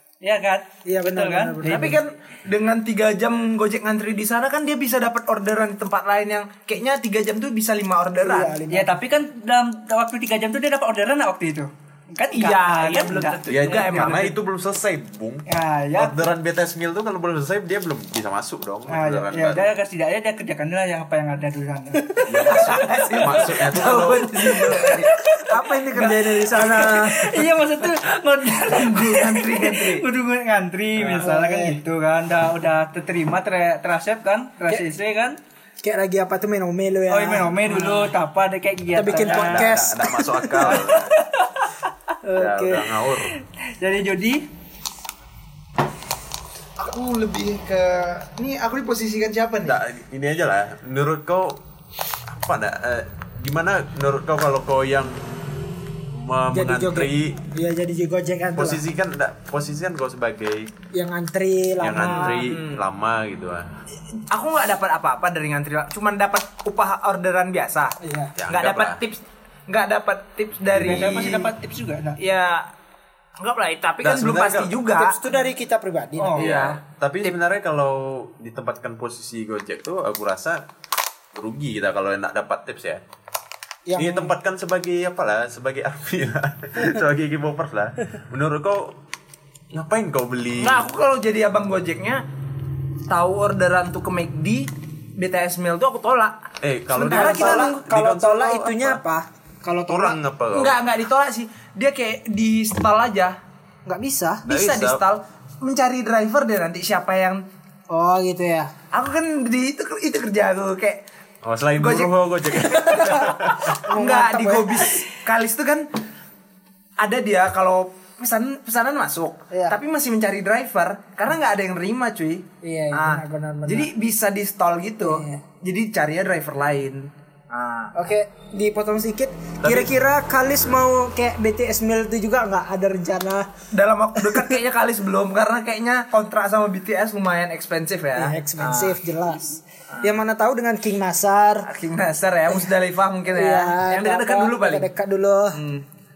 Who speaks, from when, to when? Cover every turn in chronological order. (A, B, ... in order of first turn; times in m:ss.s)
0:00.2-0:02.0 A
0:00.8-0:02.0 B
0:01.6-0:08.6 C
0:08.2-0:08.9 B
0:08.7-0:14.3 A
0:12.3-0:14.4 C
0:13.5-0:19.7 D
0:15.5-0:16.3 A
0:18.9-0:35.4 A
0:22.3-0:24.4 D
0:22.5-0:25.1 C
0:25.5-0:27.5 B
0:28.7-0:30.1 C
0:31.1-0:31.8 B
0:35.8-0:38.1 B
0:37.1-0:39.8 A
0:39.0-0:40.1 B
0:39.2-0:41.1 D
0:40.6-0:41.5 A
0:42.2-0:42.8 B
0:42.4-0:43.3 D
0:43.6-0:44.4 A
0:46.8-0:49.8 C
0:49.6-0:51.6 D
0:52.3-0:55.4 D
0:56.1-0:57.4 D
0:56.5-0:58.8 B
0:58.6-1:00.7 D
1:00.9-1:02.4 B
1:01.8-1:03.7 D
1:02.0-1:02.8 C
1:04.1-1:08.0 C
1:08.0-1:08.3 B
1:08.4-1:09.0 D
1:08.5-1:11.5 C
1:10.7-1:11.4 D
1:10.8-1:12.2 A
1:12.2-1:12.7 C
1:13.4-1:15.2 C
1:14.0-1:14.8 D
1:14.9-1:16.5 B
1:16.2-1:16.5 A
1:16.4-1:17.4 C
1:16.4-1:20.7 D
1:21.3-1:23.0 D
1:23.9-1:24.3 B
1:24.0-1:29.0 D
1:29.7-1:30.9 D
1:30.6-1:32.3 C
1:33.1-1:37.8 C
1:36.6-1:39.0 D
1:37.0-1:40.2 B
1:39.9-1:40.8 D
1:40.5-1:43.4 C
1:43.9-1:44.5 B
1:44.4-1:45.0 D
1:44.5-1:47.5 C
1:47.9-1:48.7 B
1:48.9-1:51.0 C
1:51.4-1:53.8 D
1:51.8-1:55.9 C
1:53.8-1:55.0 B
1:57.0-2:08.0 C
1:59.5-1:59.8 B
2:02.6-2:03.9 B
2:05.0-2:05.4 B
2:07.9-2:13.5 B
2:09.6-2:09.9 D
2:13.7-2:19.0 C
2:18.2-2:21.7 B
2:21.6-2:24.9 C
2:23.3-2:25.6 B
2:25.5-2:25.9 C